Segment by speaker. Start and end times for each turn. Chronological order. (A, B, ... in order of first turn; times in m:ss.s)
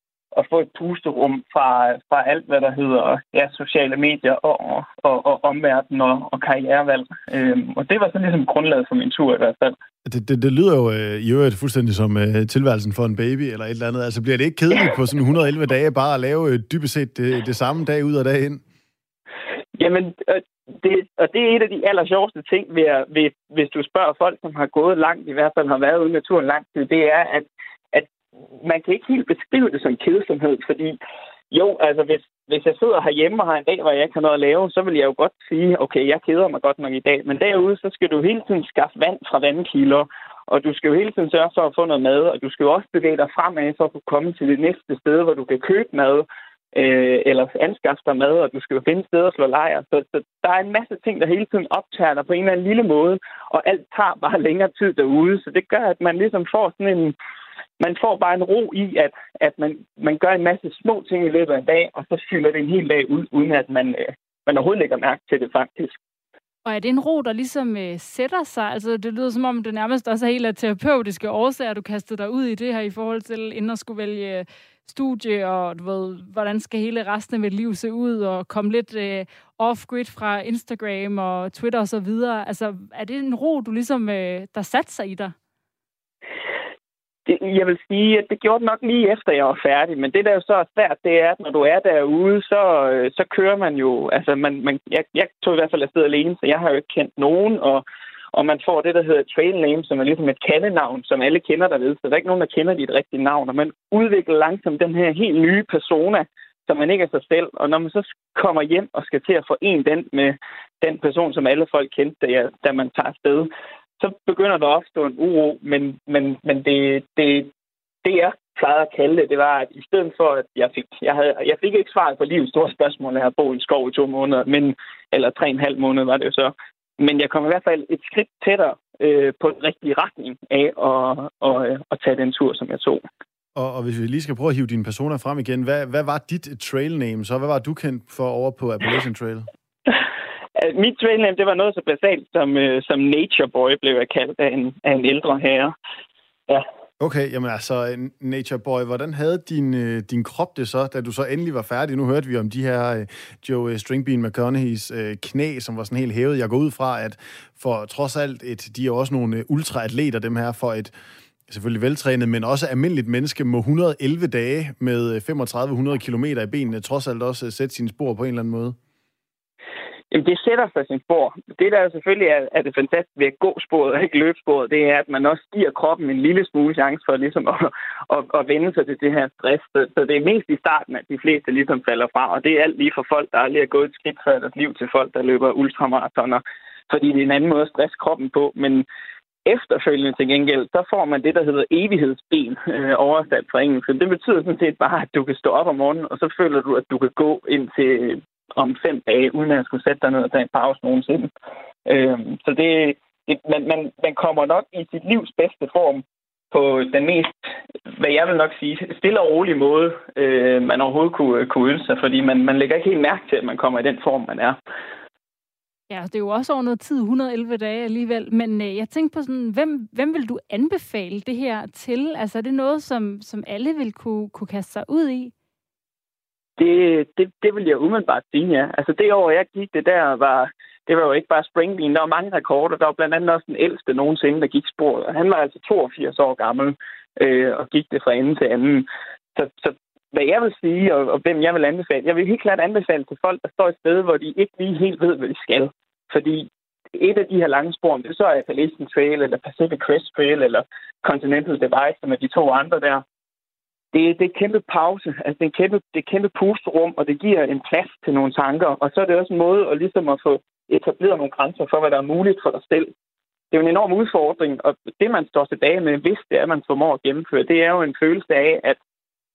0:00.3-0:09.8 A
0:10.0-0:18.6 B
0:19.8-0:31.0 A
0:31.5-0:57.2 A
0:57.8-1:06.0 A
1:06.6-1:25.4 C
1:27.3-1:57.5 A
1:58.0-2:13.0 A
2:13.6-2:19.5 B
2:20.6-2:25.7 A
2:27.0-2:40.9 B
2:41.5-2:48.8 B
2:50.1-3:08.9 A
3:09.5-3:21.3 A
3:21.9-3:27.4 A
3:27.9-3:34.6 A
3:35.9-3:45.3 C
3:46.6-4:13.0 A
4:13.9-4:22.9 A
4:23.5-4:28.8 A